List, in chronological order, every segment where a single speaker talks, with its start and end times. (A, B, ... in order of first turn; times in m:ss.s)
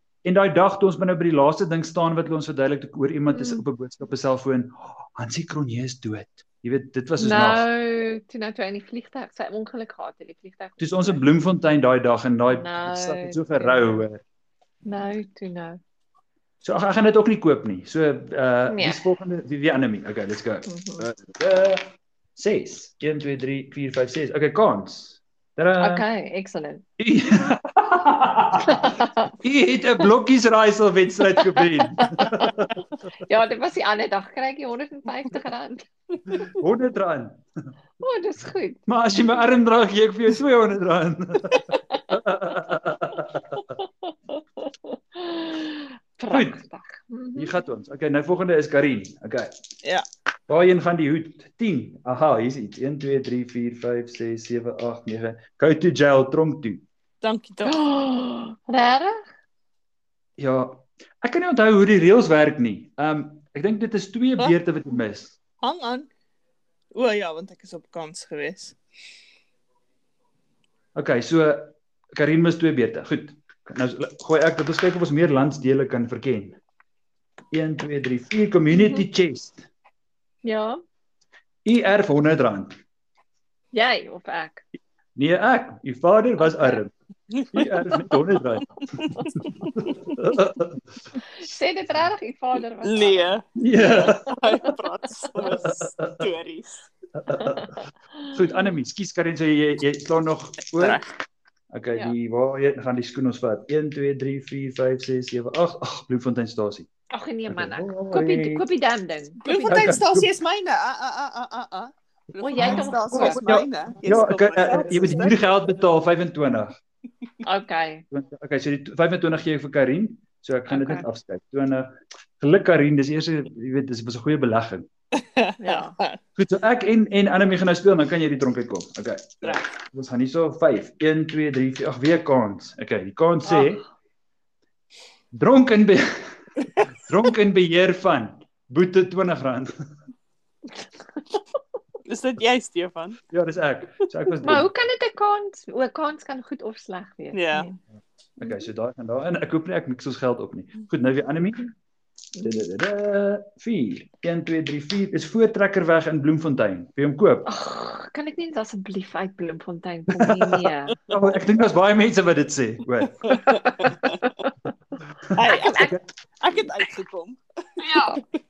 0:00.2-0:07.7 A
0:03.3-0:03.6 B
0:07.2-0:11.2 B
0:10.8-0:14.2 A
0:12.5-0:14.0 B
0:14.8-0:15.8 B
0:16.6-0:21.8 A
0:18.7-0:19.0 B
0:20.7-0:21.1 B
0:22.4-0:26.1 A
0:25.8-0:26.8 B
0:27.0-0:32.7 A
0:28.6-0:29.3 B
0:31.4-0:32.7 B
0:33.2-0:35.8 B
0:36.4-0:37.4 A
0:38.0-0:38.8 B
0:38.9-0:43.6 A
0:41.7-0:42.0 B
0:43.8-0:47.5 B
0:46.3-0:46.6 A
0:47.4-0:49.5 A
0:50.5-0:56.8 A
0:57.2-0:57.8 C
0:57.7-0:59.2 B
1:00.4-1:05.4 A
1:05.6-1:06.1 C
1:06.9-1:08.8 C
1:11.0-1:16.6 A
1:17.5-1:19.7 A
1:20.4-1:20.8 B
1:21.6-1:22.7 A
1:23.7-1:24.6 B
1:25.2-1:26.9 A
1:26.4-1:26.8 B
1:27.5-1:28.8 A
1:29.2-1:30.1 C
1:29.5-1:30.8 A
1:31.3-1:34.3 B
1:32.8-1:36.9 C
1:33.6-1:34.4 A
1:35.5-1:36.2 A
1:37.2-1:41.0 A
1:37.3-1:38.8 B
1:40.8-1:41.1 C
1:41.7-1:46.9 A
1:47.1-1:49.5 B
1:47.5-1:48.7 A
1:49.4-1:55.3 C
1:49.5-1:50.3 A
1:52.4-1:53.5 B
1:52.6-1:56.8 A
1:54.7-1:55.3 B
1:57.4-1:58.0 B
1:58.1-2:04.9 A
2:00.7-2:01.1 B
2:05.4-2:06.2 C
2:05.6-2:06.0 B
2:06.4-2:13.8 A
2:13.4-2:13.8 B
2:15.3-2:16.1 A
2:17.1-2:19.7 A
2:22.1-2:23.2 C
2:23.3-2:24.7 A
2:24.4-2:27.8 B
2:27.3-2:27.7 C
2:28.4-2:28.7 B
2:28.4-2:31.6 A
2:32.4-2:32.6 B
2:32.4-2:37.5 A
2:37.4-2:41.0 B
2:40.2-2:43.2 A
2:43.3-2:44.5 B
2:43.3-2:44.2 C
2:45.3-2:46.0 A
2:45.4-2:47.4 C
2:45.5-2:45.9 B
2:47.8-2:48.2 B